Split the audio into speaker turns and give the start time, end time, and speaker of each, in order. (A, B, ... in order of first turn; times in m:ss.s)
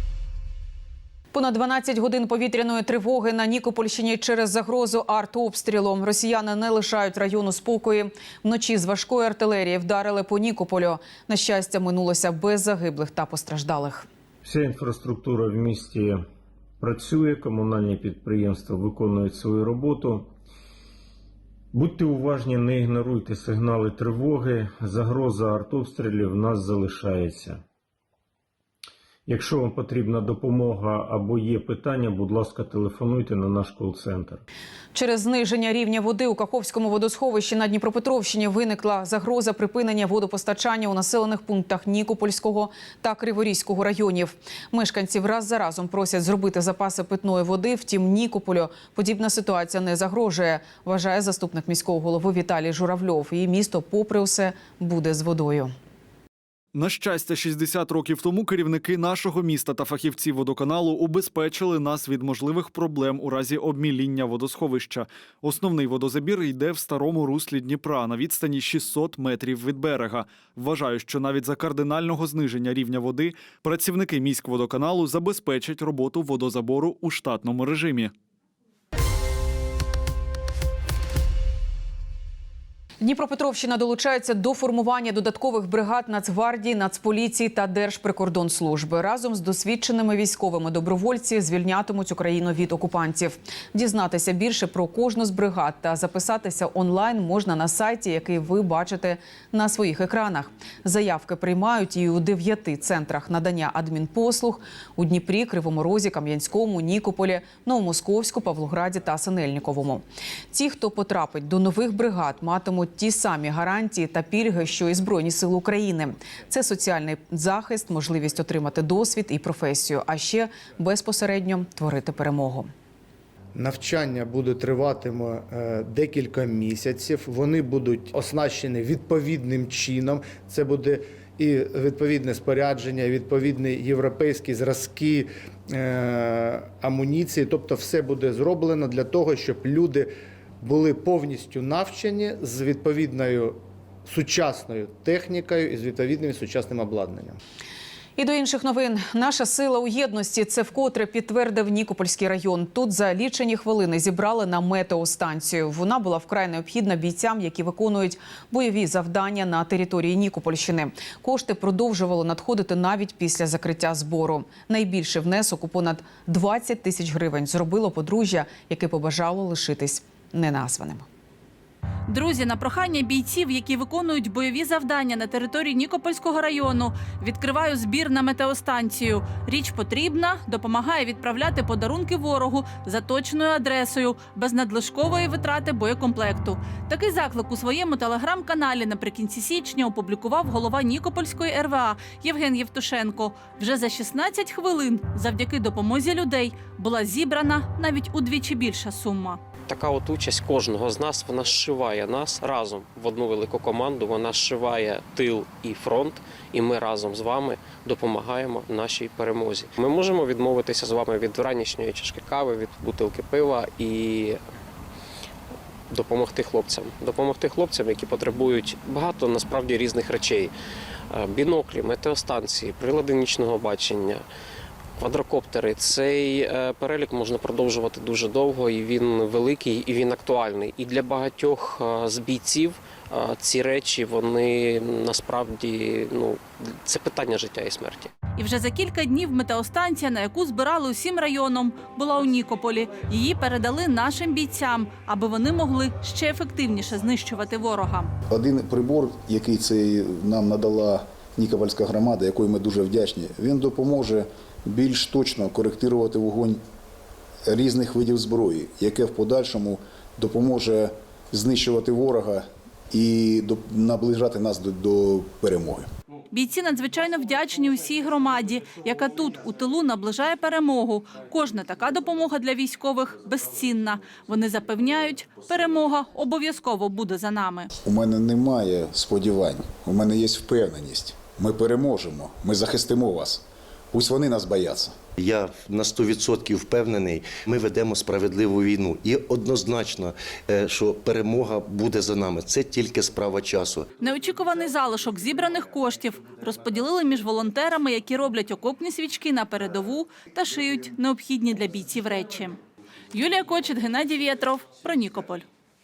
0:01.3-0:14.1 A
0:14.4-0:16.2 B
0:16.8-0:20.3 B
0:21.7-0:27.6 B
0:29.3-0:34.4 B
0:34.9-0:55.7 A
0:56.7-1:18.1 C
1:23.0-2:02.7 A
2:03.6-2:27.4 D
2:28.2-2:51.0 A
2:52.1-3:19.4 E
3:19.7-3:34.4 F
3:35.9-3:40.5 F
3:41.1-3:44.2 F
3:45.0-3:58.1 F
3:58.4-4:08.1 E
4:08.3-4:16.6 G
4:17.5-4:25.9 G
4:26.3-4:37.7 E
4:37.8-4:45.0 G
4:45.3-4:53.8 H
4:54.0-5:02.6 E
5:03.1-5:05.4 E